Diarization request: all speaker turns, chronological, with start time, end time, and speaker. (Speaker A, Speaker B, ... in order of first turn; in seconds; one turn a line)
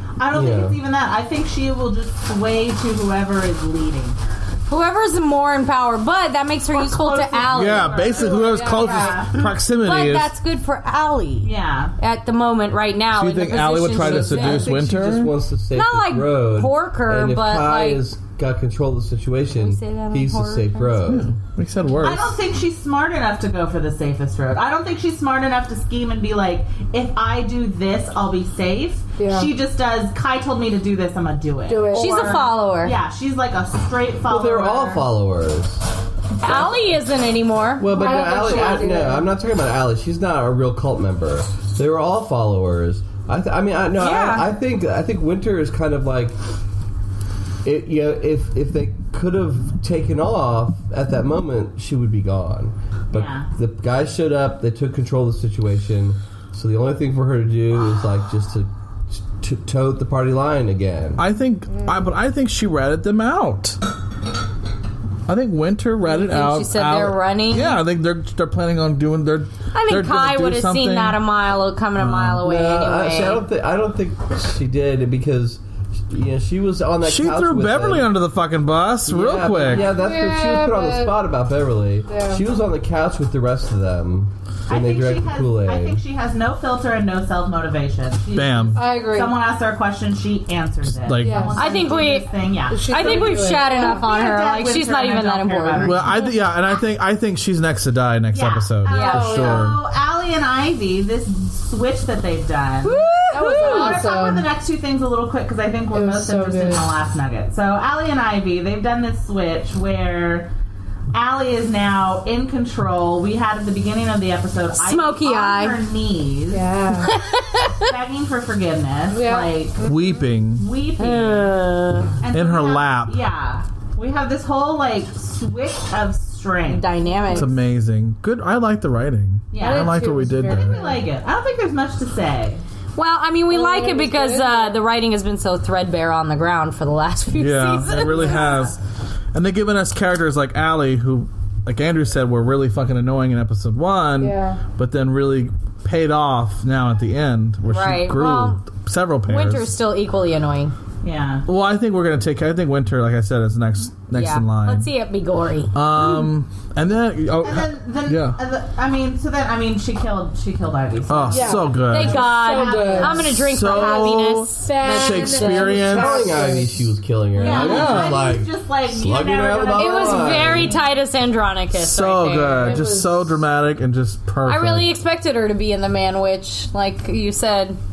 Speaker A: 0.2-4.6
Speaker B: 0.3-0.8
Speaker C: 4.7-8.0
Speaker A: 6.7-9.5
Speaker D: 7.5-10.3
Speaker E: 7.8-9.3
Speaker C: 9.8-14.8
Speaker A: 11.4-11.9
Speaker D: 13.1-15.3
Speaker B: 13.9-21.3
Speaker C: 15.7-18.0
Speaker C: 19.5-21.0
Speaker D: 21.1-22.3
Speaker A: 22.0-35.1
Speaker E: 29.2-29.5
Speaker E: 31.7-32.4
Speaker C: 31.9-33.0
Speaker B: 34.2-35.9
Speaker C: 36.4-37.9
Speaker B: 36.4-36.8
Speaker B: 37.8-46.4
Speaker E: 37.9-39.3
Speaker C: 44.0-44.4
Speaker B: 47.6-61.2
Speaker A: 53.1-53.5
Speaker D: 61.2-63.8
Speaker E: 61.7-62.0
Speaker D: 65.3-71.2
Speaker C: 66.0-67.8
Speaker C: 69.7-73.4
Speaker D: 72.0-72.4
Speaker B: 72.4-78.1
Speaker D: 77.0-79.9
Speaker B: 79.0-86.0
Speaker E: 79.7-81.2
Speaker E: 82.0-82.5
Speaker A: 84.7-96.1
Speaker D: 88.3-88.8
Speaker E: 88.7-89.4
Speaker D: 90.9-91.5
Speaker E: 91.2-92.2
Speaker C: 91.5-92.3
Speaker E: 92.7-94.2
Speaker C: 92.9-95.9
Speaker D: 95.8-99.8
Speaker E: 96.1-96.4
Speaker A: 98.3-110.5
Speaker C: 98.9-99.4
Speaker E: 99.0-99.6
Speaker C: 102.8-104.0
Speaker E: 103.3-104.5
Speaker E: 105.9-106.9
Speaker A: 111.1-116.7
Speaker C: 114.8-115.8
Speaker E: 116.5-117.1
Speaker C: 117.0-117.9
Speaker A: 117.8-119.9
Speaker E: 119.1-120.2
Speaker D: 119.8-120.6
Speaker A: 120.5-121.5
Speaker C: 121.0-122.2
Speaker A: 122.2-127.4
Speaker D: 122.3-123.2
Speaker C: 126.7-127.5
Speaker D: 127.3-130.9
Speaker A: 129.5-132.6
Speaker E: 129.6-131.1
Speaker C: 132.9-138.4
Speaker E: 133.5-134.8
Speaker D: 137.4-138.8
Speaker A: 137.7-138.8
Speaker D: 139.3-149.7
Speaker E: 144.2-144.6
Speaker C: 147.7-148.6
Speaker C: 149.2-150.7
Speaker A: 151.0-151.4
Speaker D: 151.4-154.9
Speaker C: 154.1-155.7
Speaker D: 155.7-158.4
Speaker A: 157.4-164.0
Speaker D: 161.1-162.2
Speaker E: 161.3-163.2
Speaker C: 161.9-165.9
Speaker D: 163.3-166.2
Speaker E: 163.8-166.9
Speaker B: 165.8-170.7
Speaker A: 167.4-171.0
Speaker D: 167.4-168.3
Speaker C: 169.8-172.6
Speaker D: 171.7-174.9
Speaker E: 172.6-173.3
Speaker C: 174.4-177.8